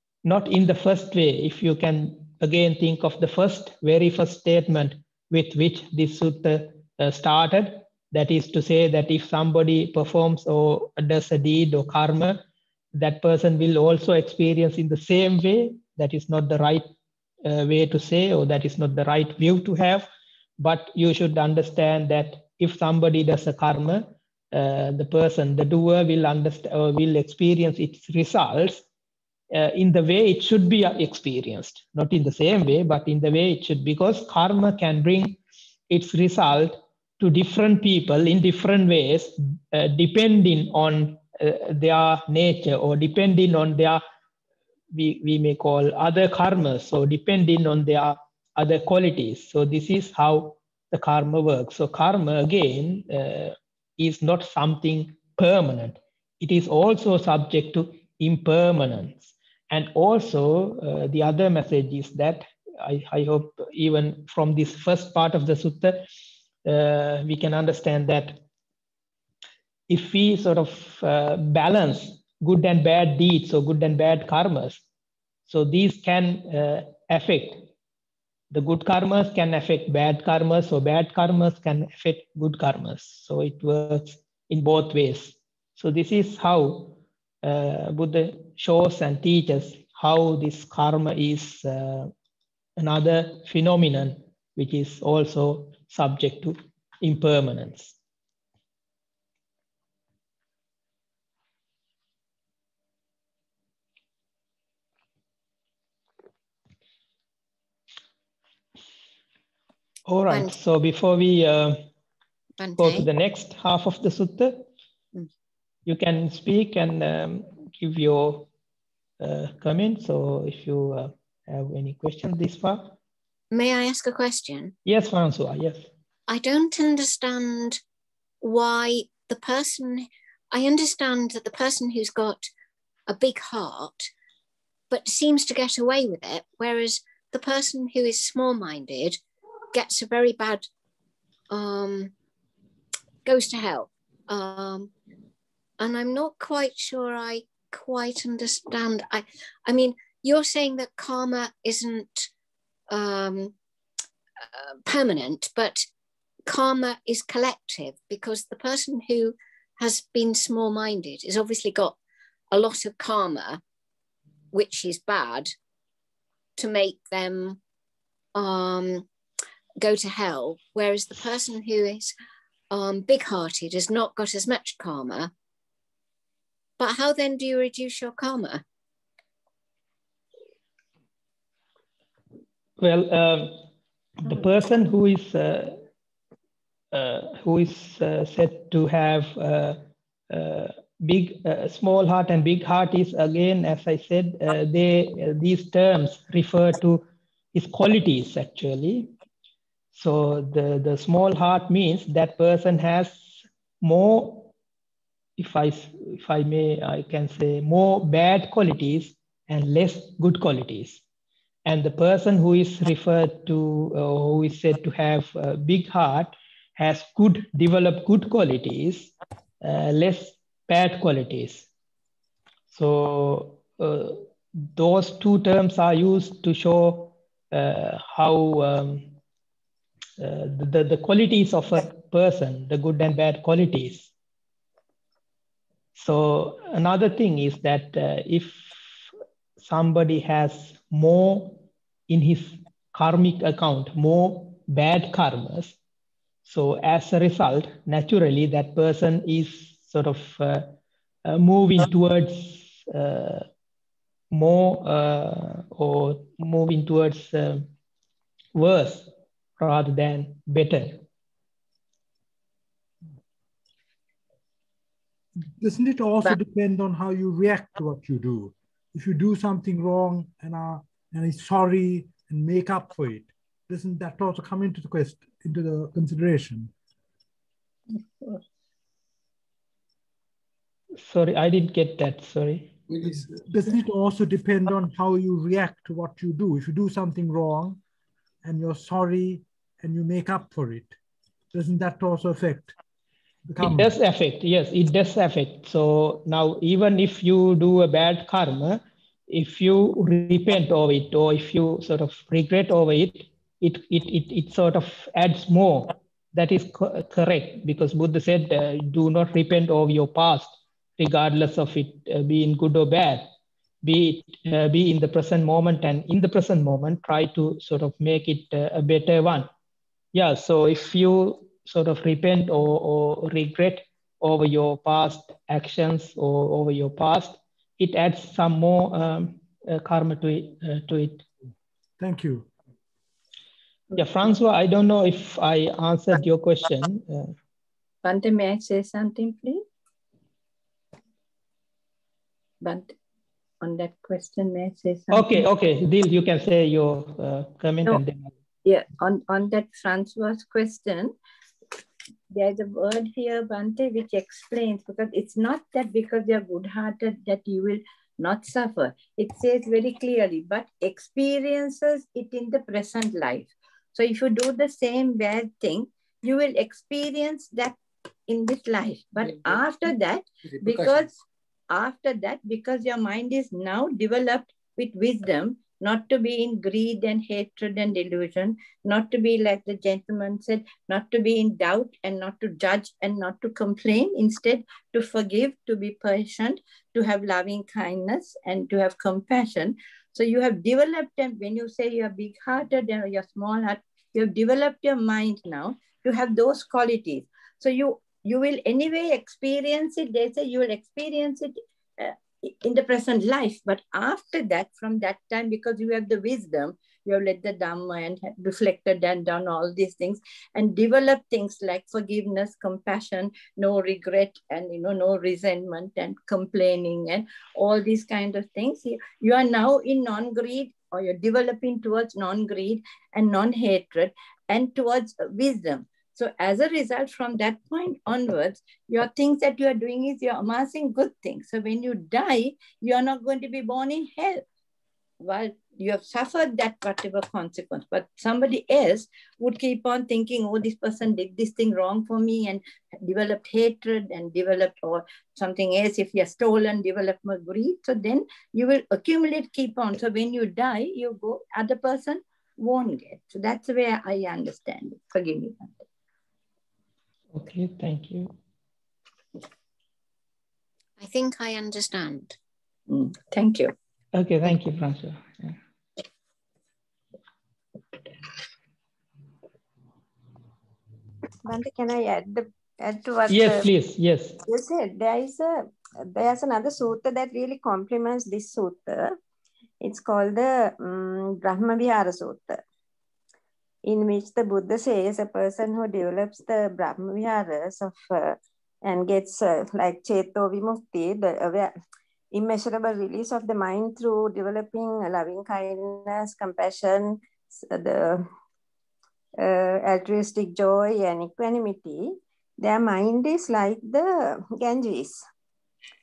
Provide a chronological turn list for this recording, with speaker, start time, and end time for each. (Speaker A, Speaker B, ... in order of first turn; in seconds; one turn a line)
Speaker A: 0.2-12.4
Speaker A: 12.9-16.9
Speaker A: 17.4-20.1
Speaker A: 20.6-28.8
Speaker A: 29.5-35.4
Speaker A: 35.9-44.0
Speaker A: 44.9-66.1
Speaker A: 66.7-68.4
Speaker A: 69.9-74.8
Speaker A: 75.5-77.7
Speaker A: 78.5-92.1
Speaker A: 92.8-98.0
Speaker A: 110.1-111.8
Speaker B: 112.6-113.0
Speaker A: 112.8-114.7
Speaker A: 115.9-118.5
Speaker A: 119.2-122.9
Speaker B: 123.5-124.8
Speaker A: 124.8-125.9
Speaker B: 126.3-127.8
Speaker B: 128.4-132.5
Speaker B: 133.1-134.1
Speaker B: 134.9-139.2
Speaker B: 139.7-140.7
Speaker B: 141.5-142.1
Speaker B: 143.2-144.9
Speaker B: 145.8-152.3
Speaker B: 152.9-153.5
Speaker B: 154.4-155.8
Speaker B: 156.5-161.9
Speaker B: 162.5-163.6
Speaker B: 164.5-165.5
Speaker B: 166.6-167.6
Speaker B: 168.3-169.1
Speaker B: 169.8-172.1
Speaker B: 172.7-175.3
Speaker B: 176.8-178.6
Speaker A: 182.8-183.7
Speaker A: 184.2-185.8
Speaker A: 186.9-199.1
Speaker A: 199.9-204.5
Speaker A: 205.4-211.0
Speaker A: 211.7-221.7
Speaker A: 222.7-229.1
Speaker A: 230.2-234.1
Speaker A: 236.0-239.1
Speaker A: 239.6-245.8
Speaker A: 246.4-250.7
Speaker A: 251.2-253.5
Speaker A: 254.3-257.7
Speaker A: 258.6-261.0
Speaker C: 265.4-276.7
Speaker A: 281.0-282.7
Speaker C: 283.0-287.8
Speaker C: 288.4-290.9
Speaker C: 291.5-292.7
Speaker C: 293.5-293.9
Speaker A: 293.6-313.3
Speaker A: 313.8-319.5
Speaker A: 320.1-331.2
Speaker C: 332.0-332.5
Speaker A: 334.0-337.3
Speaker D: 338.0-339.6
Speaker D: 342.6-342.9
Speaker D: 343.6-345.4
Speaker A: 345.1-348.3
Speaker D: 348.6-351.1
Speaker D: 352.3-371.1
Speaker D: 371.7-434.4
Speaker D: 435.2-455.8
Speaker A: 457.3-458.3
Speaker B: 461.0-462.4
Speaker D: 462.9-463.7
Speaker A: 464.1-465.6
Speaker E: 471.4-473.7
Speaker A: 473.3-474.4
Speaker E: 474.4-479.2
Speaker E: 479.8-482.6
Speaker E: 483.9-491.7
Speaker E: 492.3-498.3
Speaker E: 499.4-505.2